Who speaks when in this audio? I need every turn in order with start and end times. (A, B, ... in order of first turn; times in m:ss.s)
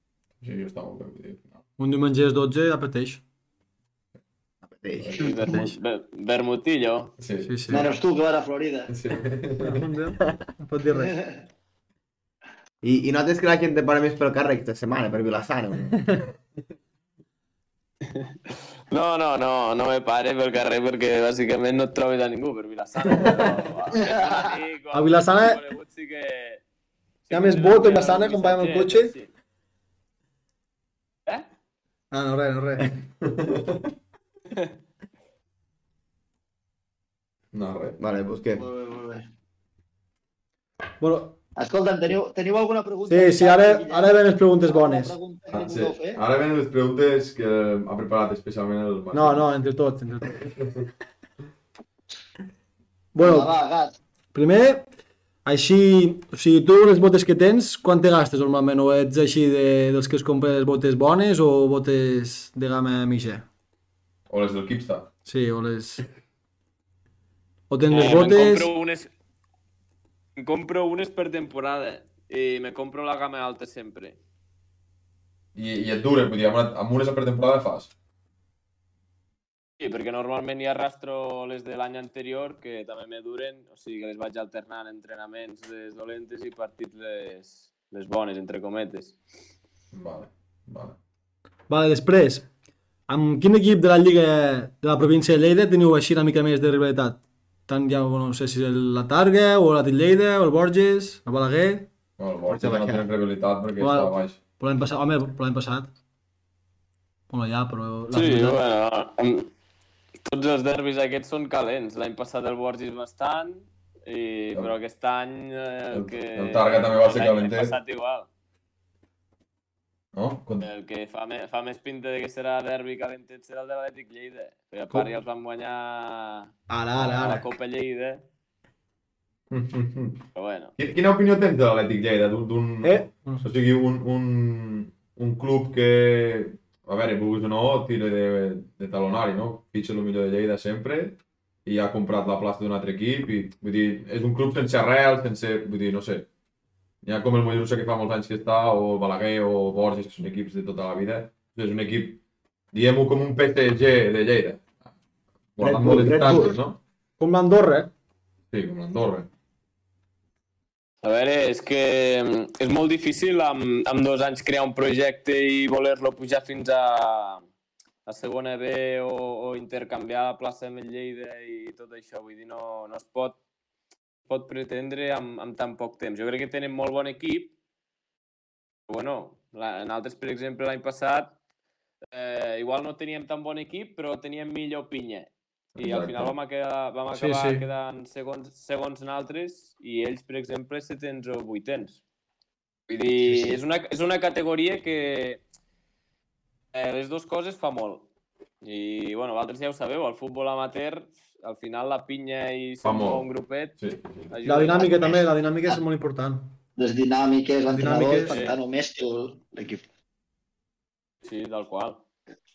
0:00.4-0:01.6 A
0:01.8-0:03.2 B
0:04.6-0:05.4 C
0:05.0-0:05.3 A
0:05.1-0:07.1 D
0:07.2-0:07.9 A
0:07.4-0:07.9 B
0:07.7-0:08.9 E
0:08.9-0:09.8 A
0:09.6-0:11.2 B
0:10.9-0:11.4 E
0:12.8-0:16.0 C
0:18.1-0:26.6 D
0:24.0-0:24.5 E
0:24.9-0:25.6 B
0:27.2-0:29.3 D
0:27.3-0:29.1 B
0:32.1-0:32.9 B
0:33.2-0:33.8 A
0:37.5-0:38.0 A
0:38.0-0:38.6 C
0:38.5-0:39.3 E
0:41.0-0:41.4 B
0:41.6-0:46.2 E
0:43.0-0:45.1 B
0:45.5-0:49.5 A
0:49.1-0:50.4 B
0:50.4-0:50.8 A
0:53.1-0:53.5 B
0:53.2-0:54.0 E
0:54.3-0:54.9 B
0:55.4-1:03.4 B
1:04.3-1:05.1 A
1:05.2-1:06.0 B
1:07.7-1:08.7 B
1:07.9-1:09.1 D
1:10.4-1:14.2 D
1:15.5-1:17.9 A
1:19.8-1:29.2 D
1:29.9-1:31.0 A
1:31.7-1:32.5 B
1:33.1-1:41.9 B
1:42.2-1:44.4 A
1:42.5-1:43.1 C
1:43.8-1:45.9 B
1:47.3-1:48.6 B
1:48.1-1:49.5 D
1:50.2-1:58.3 D
1:55.9-1:57.7 A
2:00.1-2:00.7 A
2:00.6-2:08.2 D
2:06.7-2:07.5 B
2:09.5-2:10.2 A
2:10.3-2:10.7 D
2:10.8-2:26.3 A
2:12.8-2:13.5 B
2:27.0-2:32.2 A
2:32.7-2:34.7 A
2:35.6-2:36.8 A
2:35.6-2:36.6 C
2:37.2-2:37.9 B
2:38.5-2:39.3 A
2:41.0-2:47.4 D
2:48.0-2:53.4 D
2:54.3-2:57.5 D
2:58.9-3:01.3 D
3:02.1-3:12.0 D
3:05.8-3:06.3 A
3:07.1-3:07.6 B
3:12.9-3:15.4 D
3:16.7-3:18.1 D
3:18.6-3:23.8 D
3:22.8-3:24.3 A
3:24.3-3:25.2 D
3:24.4-3:26.5 B
3:25.0-3:25.8 E
3:26.8-3:29.8 E
3:27.7-3:28.4 B
3:28.2-3:28.6 D
3:31.2-3:32.0 D